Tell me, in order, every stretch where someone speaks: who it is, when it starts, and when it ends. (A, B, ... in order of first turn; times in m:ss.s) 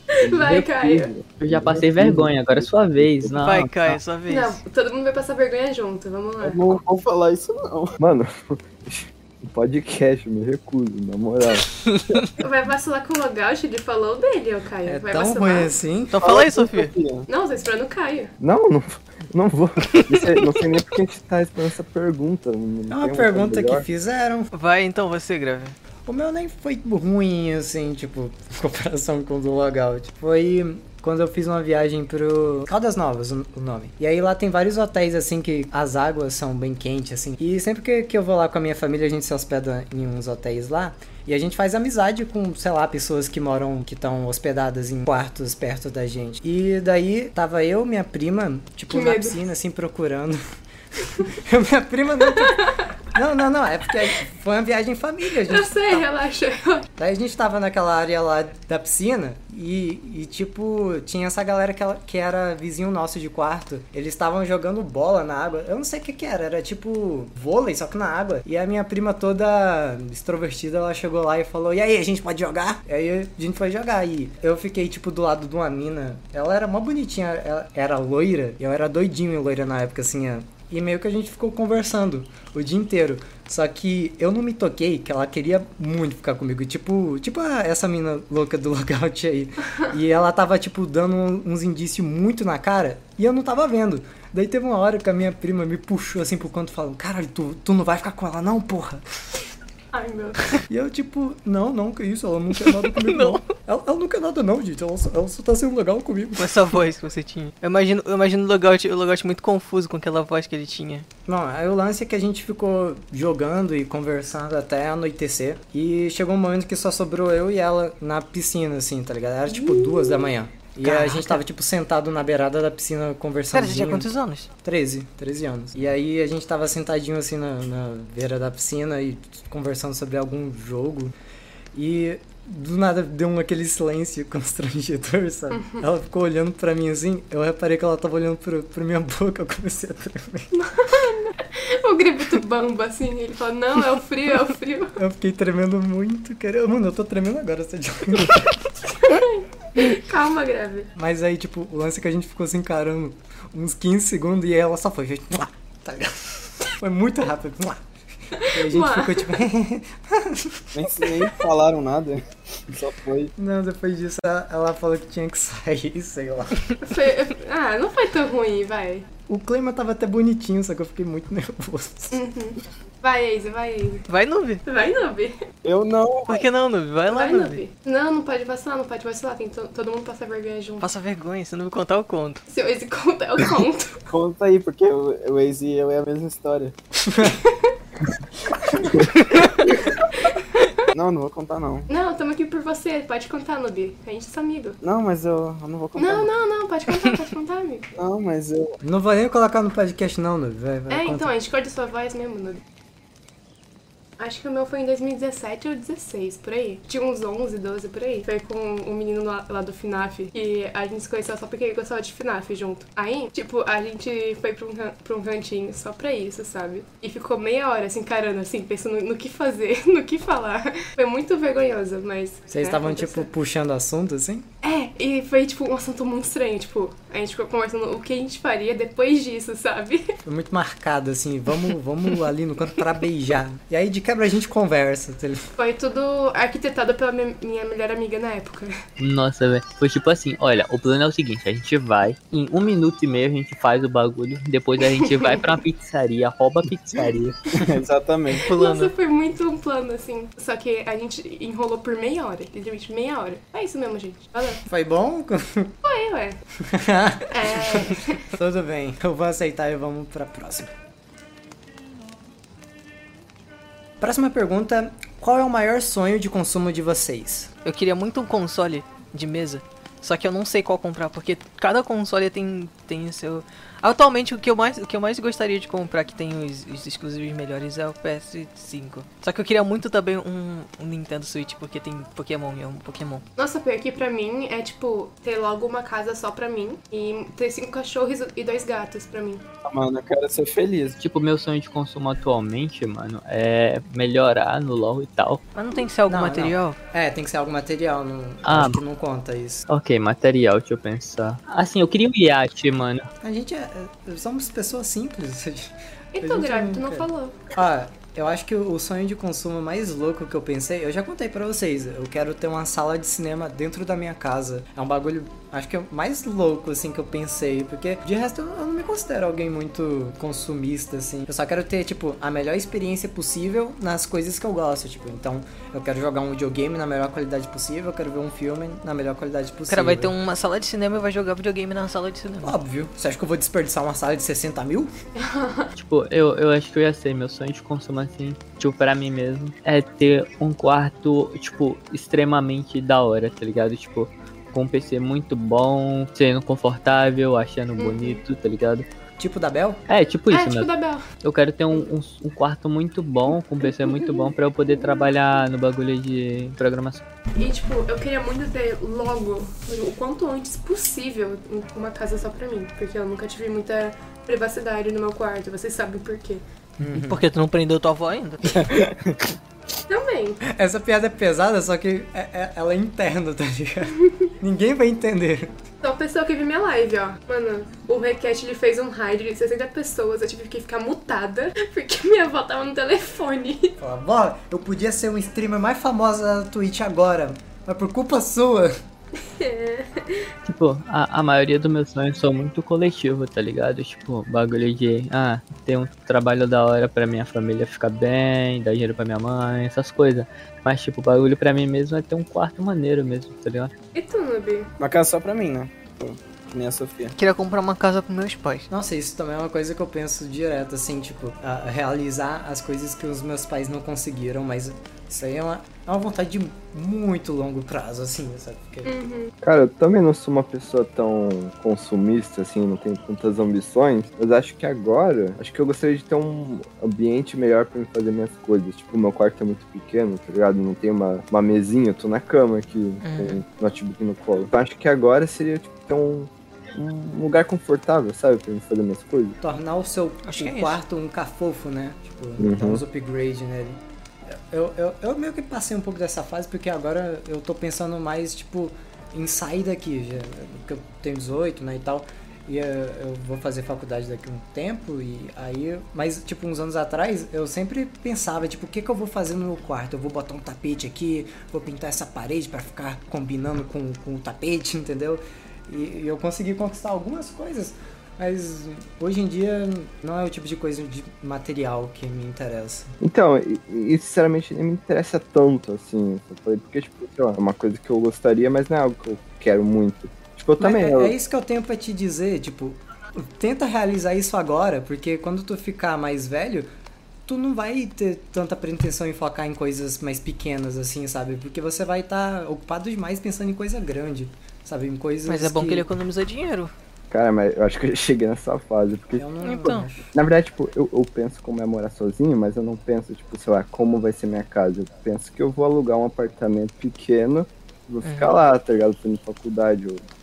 0:00.1-0:01.1 A
0:00.2-0:03.4 B
0:01.4-0:04.0 C
0:03.4-0:04.6 D
0:04.3-0:06.6 A
0:06.4-0:08.0 E
0:08.0-0:11.7 B
0:11.9-0:12.3 D
0:12.4-0:15.7 A
0:14.9-0:16.4 F
0:16.1-0:16.9 D
0:16.2-0:17.3 E
0:17.3-0:18.3 A
0:18.4-0:23.9 B
0:19.9-0:20.4 D
0:22.9-0:24.5 F
0:24.5-0:25.8 D
0:26.1-0:50.4 F
0:48.9-0:49.4 A
0:51.3-0:56.1 F
0:52.3-0:52.9 A
0:55.4-0:56.9 A
0:57.0-1:39.0 F
1:39.9-1:40.4 A
1:40.7-1:46.7 F
1:42.6-1:43.5 D
1:46.4-1:51.1 D
1:51.3-2:04.1 F
1:59.5-2:00.3 A
2:00.8-2:01.4 D
2:03.5-2:04.5 D
2:04.6-2:11.1 F
2:11.7-2:20.5 F
2:15.5-2:15.8 A
2:20.5-2:25.0 A
2:25.0-2:28.6 F
2:28.9-2:30.9 A
2:31.0-2:37.8 F
2:38.4-2:39.4 A
2:38.4-2:40.7 F
2:40.7-2:43.3 E
2:43.4-2:46.7 F
2:46.8-2:49.1 A
2:49.3-2:52.2 F
2:52.1-2:54.0 A
2:54.1-2:54.6 D
2:54.6-2:55.4 A
2:55.6-2:56.4 E
2:56.3-2:57.6 D
2:57.1-3:00.9 A
3:00.8-3:02.4 D
3:02.5-3:04.0 A
3:04.1-3:06.8 E
3:07.3-3:07.7 A
3:10.3-3:10.9 A
3:10.9-3:11.9 E
3:11.9-3:14.8 A
3:14.8-3:16.3 E
3:16.0-3:17.9 A
3:18.0-3:18.8 E
3:18.8-3:21.3 F
3:20.9-3:22.6 A
3:24.2-3:43.3 A
3:42.5-3:44.5 F
3:44.6-3:50.1 A
3:50.2-3:55.4 F
3:55.6-3:58.7 A
3:59.0-4:07.4 C
4:04.9-4:05.4 A
4:07.6-4:08.5 E
4:08.5-4:08.9 D
4:08.5-4:14.6 A
4:14.7-4:15.8 F
4:15.8-4:16.4 A
4:16.7-4:20.7 F
4:17.3-4:18.3 A
4:24.0-4:27.5 F
4:27.6-4:43.2 D
4:43.4-4:49.4 A
4:49.6-4:51.0 E
4:51.0-4:55.4 C
4:55.6-4:56.8 D
4:56.1-4:59.7 F
4:58.4-4:58.8 C
4:59.7-5:03.1 C
5:03.2-5:05.7 F
5:06.1-5:07.4 A
5:06.2-5:30.1 F
5:29.7-5:32.6 D
5:32.4-5:34.9 F
5:35.2-5:35.7 A
5:35.8-5:48.9 C
5:47.8-5:48.2 A
5:49.2-5:49.8 F
5:49.9-5:50.7 C
5:50.3-5:51.1 A
5:51.2-5:57.0 C
5:57.4-6:06.4 A
6:06.8-6:07.2 F
6:06.8-6:08.6 D
6:08.6-6:09.1 E
6:09.9-6:10.4 A
6:10.4-6:15.6 F
6:14.0-6:14.3 A
6:15.8-6:23.8 A
6:23.8-6:28.7 F
6:29.2-6:30.3 A
6:30.5-6:43.7 C
6:44.0-6:44.7 A
6:44.8-6:47.2 E
6:47.2-6:48.7 D
6:48.7-6:58.9 F
6:58.8-6:59.3 A
6:59.4-7:19.4 B
7:13.0-7:13.4 D
7:19.4-7:53.0 F
7:20.2-7:20.8 D
7:22.4-7:22.8 B
7:53.0-8:01.2 B
8:00.6-8:06.7 F
8:07.3-8:15.9 F
8:15.3-8:16.7 D
8:17.1-8:19.3 B
8:19.2-8:20.1 F
8:19.4-8:19.9 D
8:20.1-8:30.0 B
8:28.0-8:28.3 D